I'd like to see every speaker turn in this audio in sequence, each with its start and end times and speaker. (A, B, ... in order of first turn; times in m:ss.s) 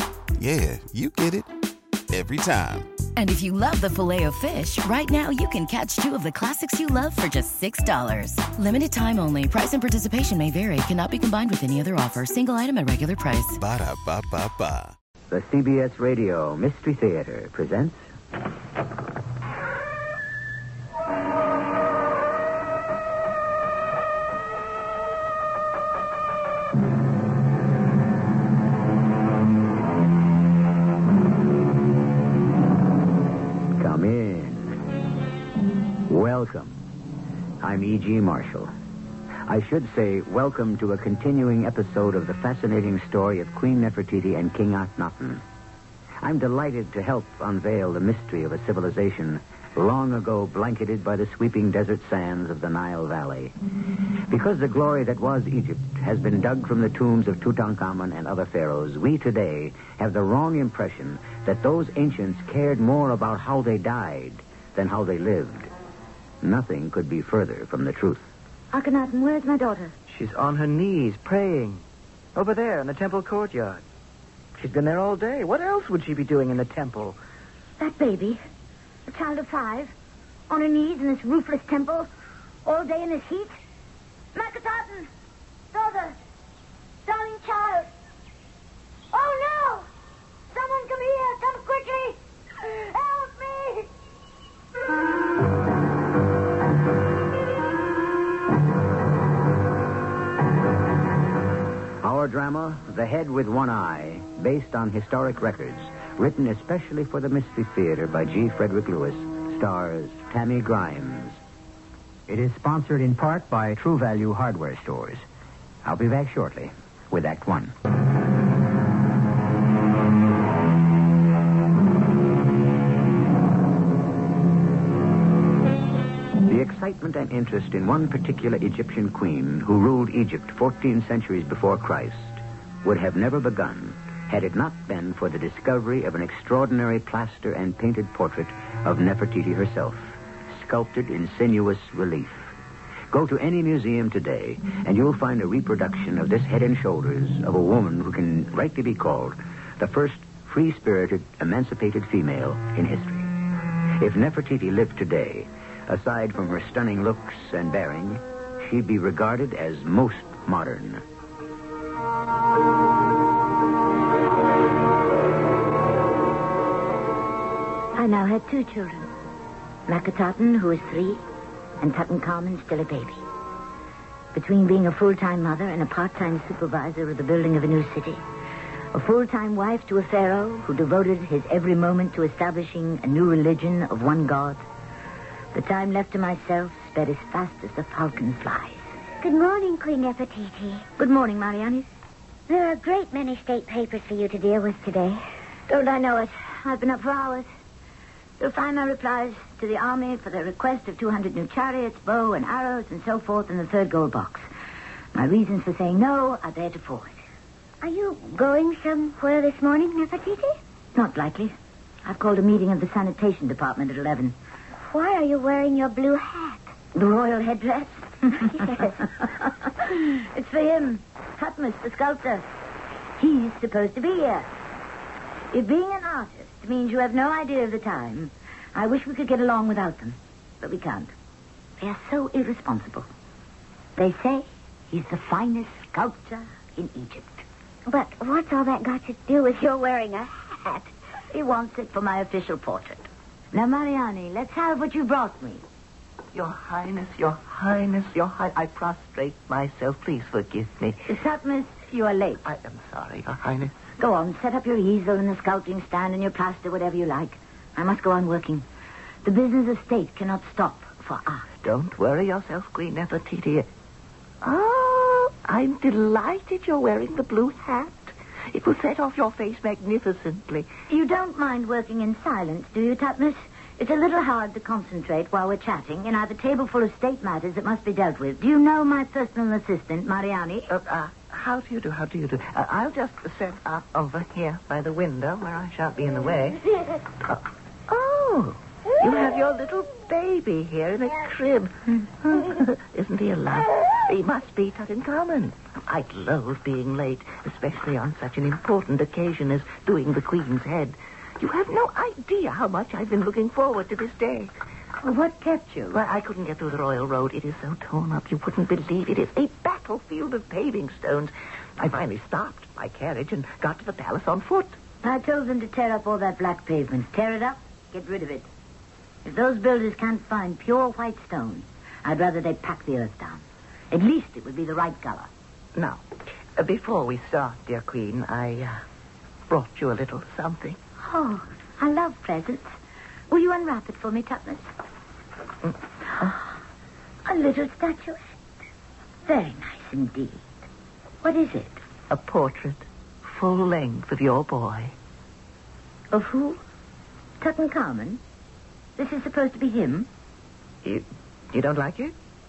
0:00.4-0:01.5 A
0:02.1-0:02.9 A
0:03.2-0:13.6 B
0:13.6-0:14.9 A
0:15.3-0:18.0 C
0:33.7-0:34.7 C
0:36.1-0:36.8 C
0:37.6-0:38.7 C
0:39.4-0:45.4 C
0:46.2-0:53.5 C
0:54.3-1:05.7 C
1:06.4-1:08.3 C
1:08.7-1:09.9 D
1:10.1-1:11.8 E
1:12.3-1:13.8 E
1:14.6-1:17.2 E
1:17.8-1:18.4 D
1:19.1-1:19.9 D
1:20.5-1:22.1 D
1:22.6-1:23.6 D
1:24.3-1:25.1 D
1:25.7-1:26.2 D
1:27.0-1:27.9 D
1:29.1-1:29.9 D
1:30.5-1:33.9 D
1:42.0-1:51.4 C
1:52.3-1:55.2 C
1:55.8-1:57.7 C
2:06.4-2:22.5 C
2:23.1-2:33.3 C
2:34.0-2:41.0 C
2:47.9-2:49.1 D
2:49.9-2:51.2 D
2:51.8-2:53.2 D
2:54.3-2:58.2 D
2:58.9-3:04.6 D
3:05.5-3:08.8 D
3:09.2-3:10.8 F
3:11.0-3:11.8 D
3:12.5-3:15.2 F
3:15.7-3:17.5 D
3:18.4-3:24.4 D
3:25.1-3:27.1 D
3:27.8-3:30.6 F
3:30.9-3:34.4 D
3:34.8-3:36.7 F
3:36.9-3:42.5 D
3:43.2-3:44.5 D
3:45.5-3:51.1 D
3:51.8-3:53.1 D
3:54.0-3:57.4 D
3:57.9-4:00.9 F
4:01.3-4:05.6 D
4:06.3-4:11.0 E
4:11.0-4:12.4 D
4:12.4-4:13.7 E
4:14.0-4:18.6 D
4:19.2-4:21.4 D
4:21.6-4:23.7 E
4:24.4-4:30.7 E
4:30.9-4:40.7 D
4:40.7-4:46.6 E
4:47.2-5:04.5 E
5:05.0-5:06.0 D
5:05.9-5:14.8 E
5:15.0-5:18.5 D
5:19.2-5:25.3 D
5:25.8-5:28.8 E
5:29.5-5:30.8 E
5:31.0-5:32.8 D
5:33.3-5:34.7 D
5:35.6-5:36.3 E
5:37.2-5:38.2 D
5:39.2-5:40.4 D
5:41.2-5:41.8 D
5:42.1-5:44.9 E
5:46.1-5:46.6 D
5:47.4-5:48.2 D
5:49.0-5:50.1 D
5:50.8-5:52.1 E